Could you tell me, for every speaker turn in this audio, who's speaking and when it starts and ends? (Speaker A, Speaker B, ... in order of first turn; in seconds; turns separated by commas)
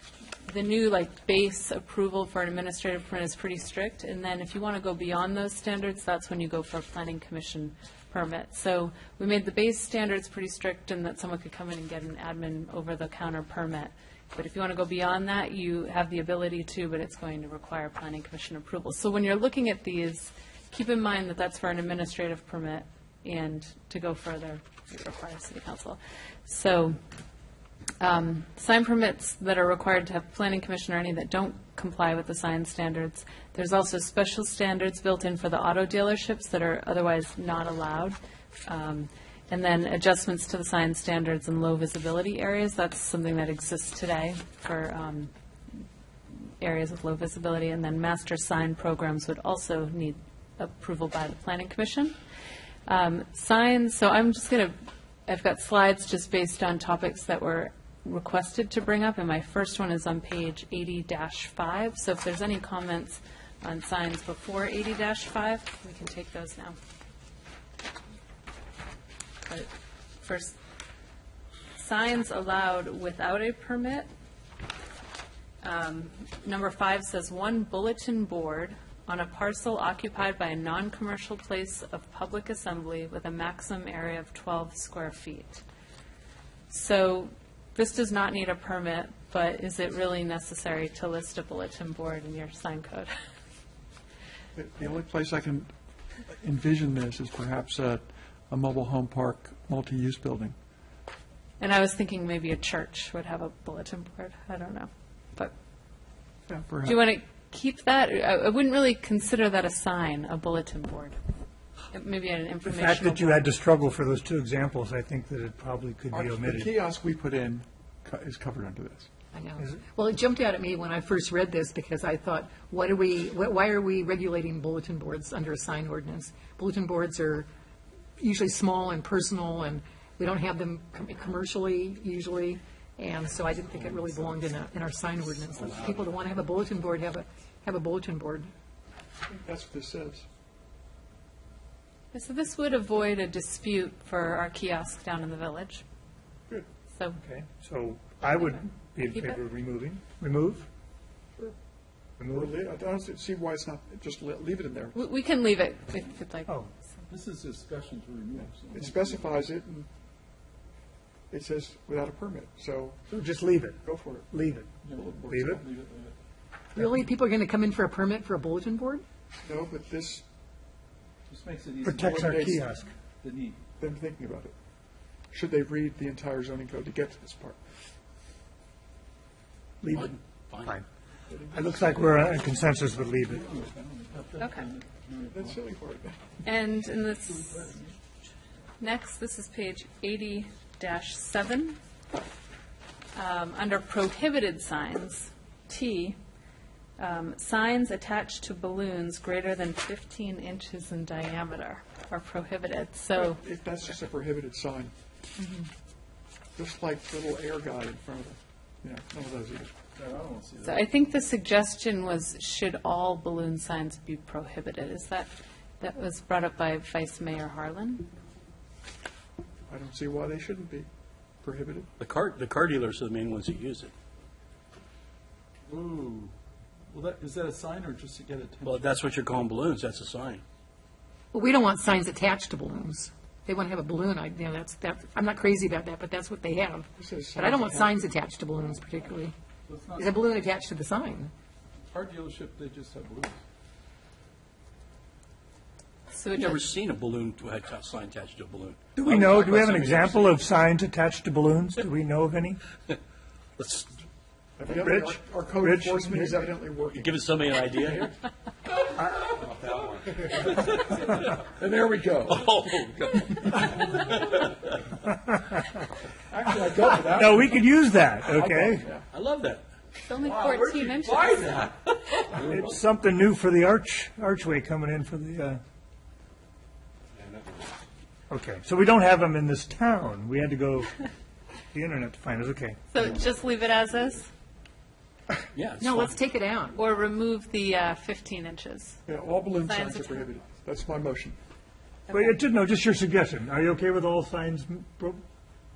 Speaker A: 0.4-27.0, Speaker A: 28.0-45.3, Speaker A: 46.6-52.1, Speaker A: 52.9-54.8, Speaker A: 55.3-66.8, Speaker A: 70.2-70.6, Speaker A: 71.7-74.1, Speaker A: 75.6-85.6, Speaker A: 86.7-93.1, Speaker B: 94.5-95.7, Speaker B: 96.3-100.5, Speaker A: 101.6-105.5, Speaker B: 106.5-107.1, Speaker A: 106.8-111.2, Speaker A: 111.9-113.5, Speaker C: 112.7-116.8, Speaker B: 116.1-119.1, Speaker D: 119.3-127.5, Speaker D: 128.2-138.5, Speaker B: 139.3-140.2, Speaker A: 142.1-145.8, Speaker C: 147.2-150.7, Speaker A: 149.1-149.4, Speaker C: 152.2-152.5, Speaker B: 152.3-155.0, Speaker A: 154.9-156.5, Speaker E: 157.1-159.5, Speaker B: 158.7-159.9, Speaker B: 161.3-163.1, Speaker C: 163.1-164.7, Speaker B: 163.8-165.7, Speaker C: 165.3-165.6, Speaker E: 165.6-166.1, Speaker D: 166.8-169.0, Speaker B: 169.4-170.2, Speaker E: 171.3-172.6, Speaker C: 171.8-172.9, Speaker B: 172.0-172.6, Speaker E: 173.2-173.6, Speaker B: 173.8-174.5, Speaker B: 175.3-177.6, Speaker C: 179.8-180.8, Speaker F: 179.9-180.7, Speaker B: 181.3-182.2, Speaker C: 181.5-183.5, Speaker E: 183.2-185.6, Speaker A: 184.4-184.7, Speaker B: 185.2-186.2, Speaker A: 186.4-187.8, Speaker A: 188.8-191.8, Speaker A: 193.1-196.2, Speaker A: 197.0-203.4, Speaker B: 203.2-204.9, Speaker A: 205.4-205.7, Speaker B: 206.6-209.8, Speaker E: 209.9-210.9, Speaker A: 210.6-218.1, Speaker B: 219.7-220.9, Speaker B: 221.4-221.9, Speaker F: 222.0-223.9, Speaker E: 225.7-226.3, Speaker E: 226.9-229.0, Speaker F: 228.6-230.4, Speaker D: 231.3-239.3, Speaker B: 237.0-238.1, Speaker E: 239.7-240.1, Speaker D: 239.9-241.3, Speaker E: 241.9-243.3, Speaker A: 246.1-246.7, Speaker F: 246.3-250.3, Speaker C: 248.9-252.6, Speaker F: 253.6-253.9, Speaker B: 254.6-258.1, Speaker C: 254.7-256.5, Speaker F: 256.9-258.1, Speaker F: 260.3-261.0, Speaker B: 261.6-262.5, Speaker F: 261.6-264.4, Speaker B: 266.3-267.3, Speaker E: 266.7-267.6, Speaker C: 266.9-268.9, Speaker F: 268.4-269.6, Speaker B: 268.6-269.0, Speaker A: 270.0-271.5, Speaker E: 270.2-271.7, Speaker F: 271.3-271.7, Speaker C: 272.4-275.6, Speaker C: 278.3-281.1, Speaker C: 281.7-282.8, Speaker A: 282.9-284.3, Speaker F: 285.5-286.1, Speaker D: 285.8-286.8, Speaker A: 286.7-289.0, Speaker B: 289.1-291.4, Speaker A: 289.6-290.3, Speaker C: 292.1-295.2